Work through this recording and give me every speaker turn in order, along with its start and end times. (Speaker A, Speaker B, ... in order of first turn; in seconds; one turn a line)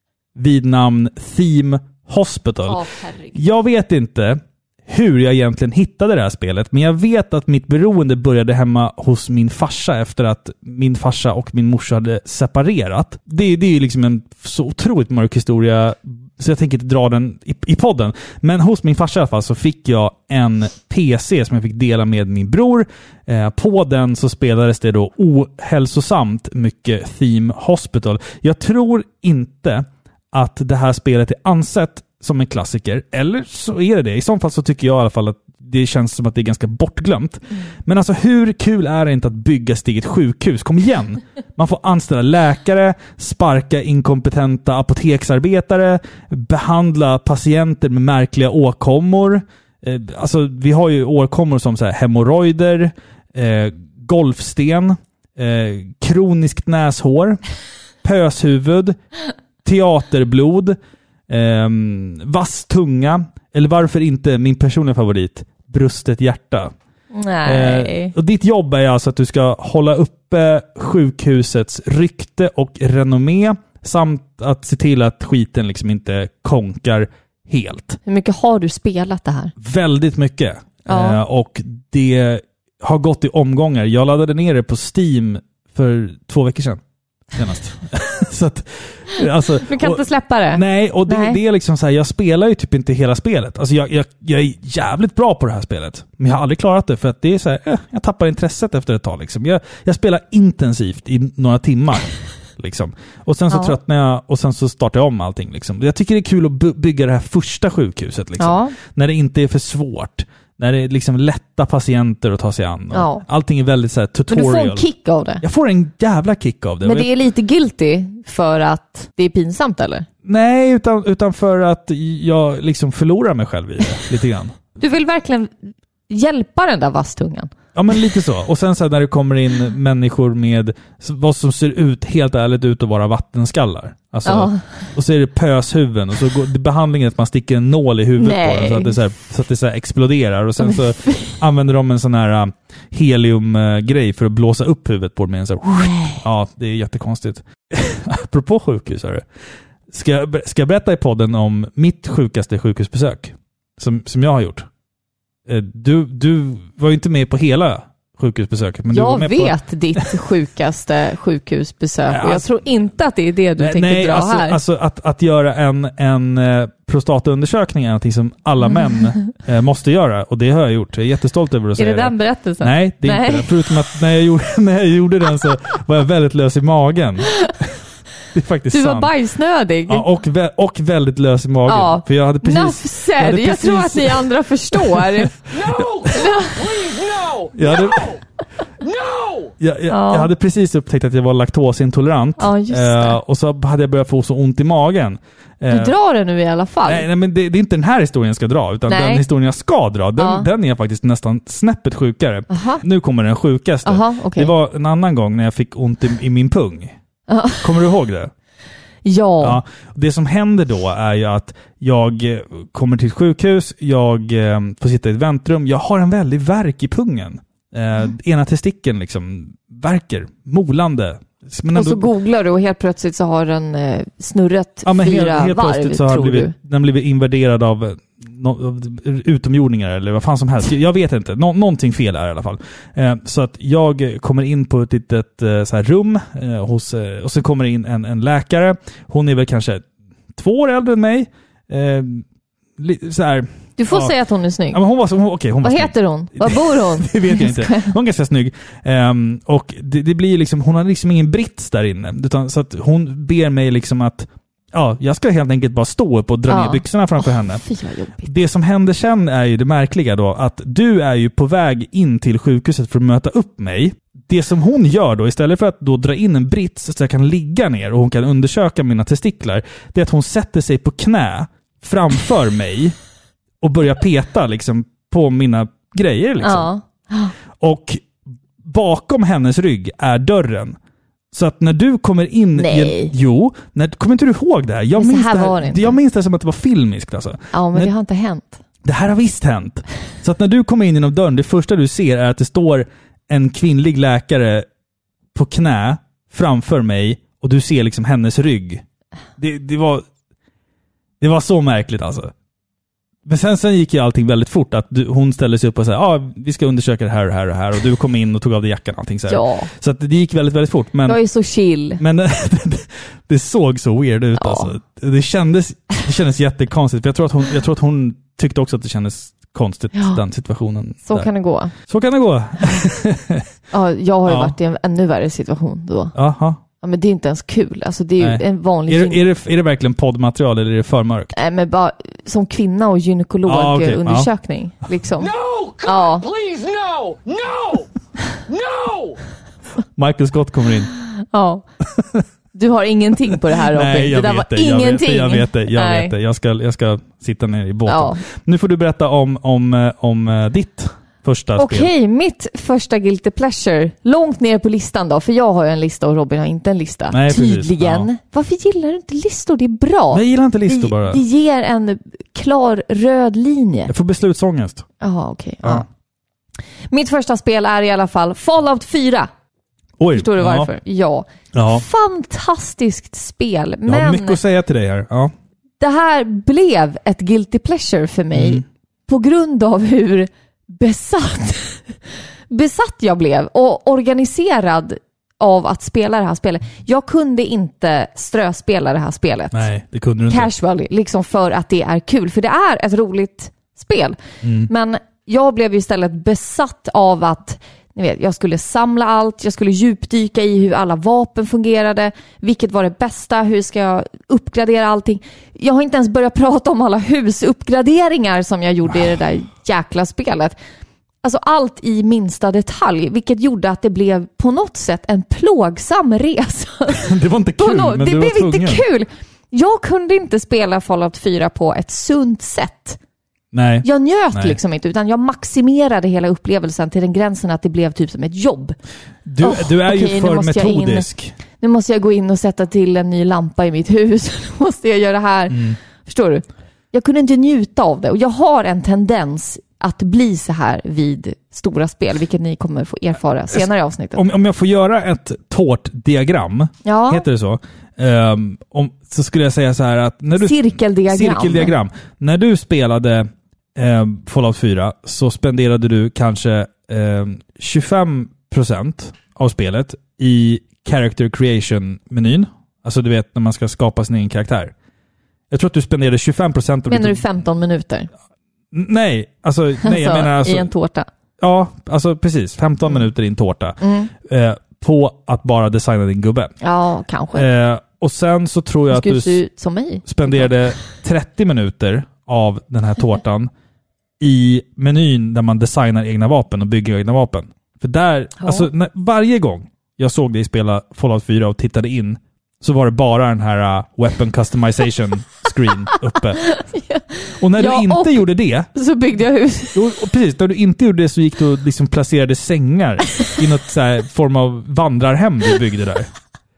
Speaker A: 0.4-2.8
Speaker B: 2.7-3.4
Speaker A: 3.4-57.4
Speaker A: 58.0-59.0
Speaker A: 59.6-60.8
Speaker A: 61.3-66.7
Speaker B: 67.1-68.1
Speaker A: 67.5-78.0
Speaker B: 78.0-79.5
Speaker A: 79.6-86.8
Speaker B: 80.9-81.2
Speaker A: 87.3-114.9
Speaker B: 89.6-91.4
Speaker B: 103.5-103.8
Speaker B: 108.4-108.8
Speaker B: 112.9-113.2
Speaker B: 114.3-115.4
Speaker A: 115.4-117.1
Speaker B: 116.8-120.1
Speaker A: 120.2-124.5
Speaker B: 124.8-125.5
Speaker B: 126.1-127.5
Speaker A: 127.8-149.2
Speaker B: 134.3-134.6
Speaker B: 138.2-139.0
Speaker B: 140.6-141.3
Speaker B: 145.7-146.2
Speaker A: 149.9-154.7
Speaker A: 155.5-160.1
Speaker B: 158.9-164.6
Speaker A: 162.1-162.5
Speaker A: 163.6-177.5
Speaker B: 171.8-173.5
Speaker A: 178.3-179.1
Speaker B: 178.7-180.1
Speaker A: 179.9-185.8
Speaker B: 181.7-185.4
Speaker C: 185.5-188.2
Speaker B: 186.1-186.6
Speaker A: 187.6-188.2
Speaker C: 188.8-189.5
Speaker A: 189.6-195.9
Speaker B: 189.9-190.3
Speaker B: 192.4-193.2
Speaker B: 195.7-197.1
Speaker A: 196.8-206.9
Speaker B: 198.9-199.2
Speaker B: 200.2-200.5
Speaker B: 202.5-202.8
Speaker B: 203.8-204.5
Speaker B: 207.3-207.7
Speaker A: 207.6-208.3
Speaker B: 209.0-209.6
Speaker A: 209.4-222.1
Speaker B: 221.7-226.5
Speaker A: 224.8-242.2
Speaker A: 242.8-244.1
Speaker B: 243.8-244.8
Speaker A: 244.7-257.6
Speaker B: 245.6-247.9
Speaker B: 256.5-258.3
Speaker A: 258.2-272.9
Speaker A: 273.6-276.7
Speaker B: 276.4-277.3
Speaker A: 277.6-278.1
Speaker A: 278.6-280.8
Speaker A: 281.3-287.9
Speaker B: 282.6-283.1
Speaker B: 285.0-286.0
Speaker B: 287.5-288.6
Speaker A: 288.8-294.7
Speaker A: 295.3-298.8
Speaker A: 299.4-300.1
Speaker A: 301.2-302.3
Speaker A: 303.3-311.2
Speaker B: 309.3-309.7
Speaker B: 311.1-312.0
Speaker A: 312.0-321.3
Speaker B: 314.4-314.7
Speaker B: 321.1-321.7
Speaker A: 321.8-323.5
Speaker B: 323.7-326.1
Speaker A: 324.3-324.5
Speaker A: 326.1-326.6
Speaker B: 326.8-329.2
Speaker A: 328.2-331.3
Speaker B: 331.4-335.3
Speaker A: 333.5-334.3
Speaker C: 335.2-337.9
Speaker B: 335.9-336.2
Speaker C: 338.5-339.2
Speaker A: 340.0-340.9
Speaker B: 341.1-341.6
Speaker A: 341.9-342.2
Speaker B: 342.5-346.1
Speaker A: 343.5-351.9
Speaker B: 347.9-348.2
Speaker B: 351.6-363.9
Speaker A: 357.1-358.1
Speaker A: 360.1-361.2
Speaker A: 363.9-364.9
Speaker B: 365.0-365.9
Speaker B: 366.9-369.3
Speaker A: 370.0-370.7
Speaker B: 370.1-374.4
Speaker A: 371.5-371.8
Speaker A: 373.9-375.3
Speaker B: 375.8-382.0
Speaker A: 378.3-378.6
Speaker B: 382.5-389.7
Speaker A: 389.5-390.5
Speaker B: 390.3-410.6
Speaker A: 394.4-394.7
Speaker B: 411.2-423.0
Speaker A: 417.0-418.8
Speaker A: 423.5-424.6
Speaker B: 423.8-428.8
Speaker A: 429.3-431.4
Speaker B: 429.4-431.1
Speaker B: 431.6-444.2
Speaker A: 435.5-435.8
Speaker A: 443.5-464.7
Speaker B: 446.8-447.2
Speaker B: 450.4-451.8
Speaker A: 465.5-467.2
Speaker B: 466.9-468.1
Speaker A: 468.7-470.7
Speaker B: 469.8-471.1
Speaker A: 471.4-476.5
Speaker B: 473.8-474.1
Speaker B: 476.6-477.5
Speaker A: 477.4-479.4
Speaker B: 478.9-480.6
Speaker A: 480.1-483.5
Speaker A: 484.2-496.5
Speaker B: 488.4-488.7
Speaker B: 496.4-498.2
Speaker A: 497.4-498.7
Speaker B: 498.7-499.8
Speaker A: 499.7-506.1